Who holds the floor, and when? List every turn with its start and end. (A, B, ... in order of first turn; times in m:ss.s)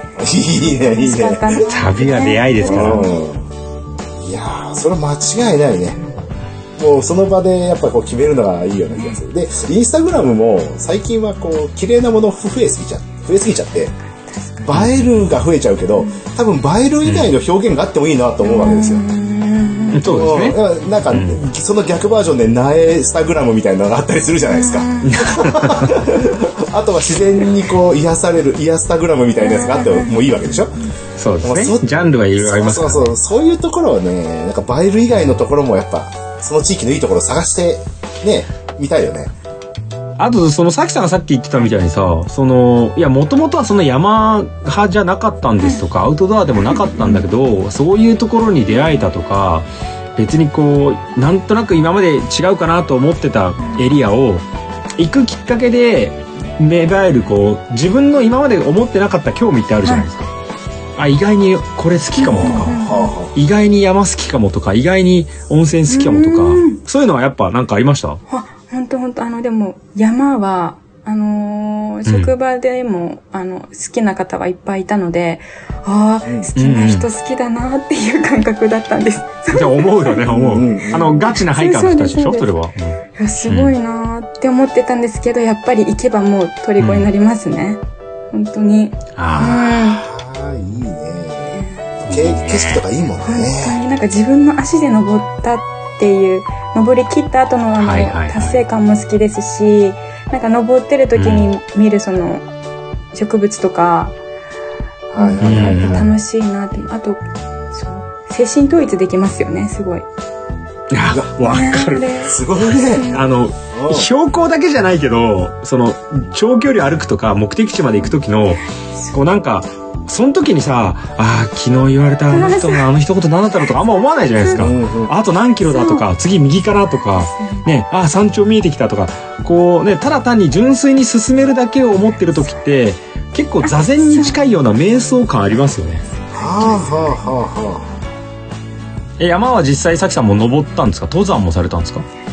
0:00.2-0:01.7 A
0:00.9-0:03.1 B
0:01.6-0:03.1 C
0:02.6-0:03.4 A
0:04.2-0:06.0 A
0:06.8-0:13.9 A
0:14.4-0:14.7 B
0:14.6-0:19.0 A
0:14.7-0:15.4 C
0:17.0-0:17.3 C
0:18.4-0:20.3 B
0:19.9-0:20.6 C
0:20.0-0:30.7 A
0:21.1-0:21.4 C
0:24.4-0:25.6 B
0:25.0-0:26.0 C
0:29.4-0:30.2 B
0:31.2-0:33.2 C
0:31.4-0:39.3 A
0:40.2-0:54.4 C
0:46.9-0:47.2 B
0:55.0-1:00.3 C
1:01.0-1:02.8 C
1:02.2-1:03.1 B
1:02.2-1:03.3 A
1:03.3-1:08.2 C
1:05.9-1:06.8 B
1:08.3-1:22.5 B
1:12.0-1:12.3 C
1:16.2-1:16.5 A
1:16.6-1:17.1 C
1:19.5-1:23.7 C
1:20.3-1:21.2 A
1:23.1-1:30.0 B
1:26.8-1:27.1 C
1:29.2-1:29.7 C
1:29.7-1:33.8 A
1:31.5-1:31.8 B
1:32.0-1:32.8 C
1:33.2-1:42.4 B
1:37.8-1:38.6 C
1:41.2-1:41.5 C
1:43.1-1:44.2 B
1:45.1-1:46.1 A
1:45.2-1:50.0 B
1:45.4-1:46.1 C
1:50.9-1:58.6 C
1:51.4-1:52.4 B
1:52.3-1:53.2 A
1:52.9-1:53.2 B
1:53.7-1:54.1 A
1:59.1-2:16.0 C
2:02.3-2:02.9 B
2:04.1-2:04.7 B
2:04.6-2:05.1 A
2:05.6-2:06.0 B
2:07.2-2:07.6 B
2:13.6-2:14.4 B
2:16.2-2:17.4 B
2:16.3-2:17.9 A
2:19.2-2:22.0 C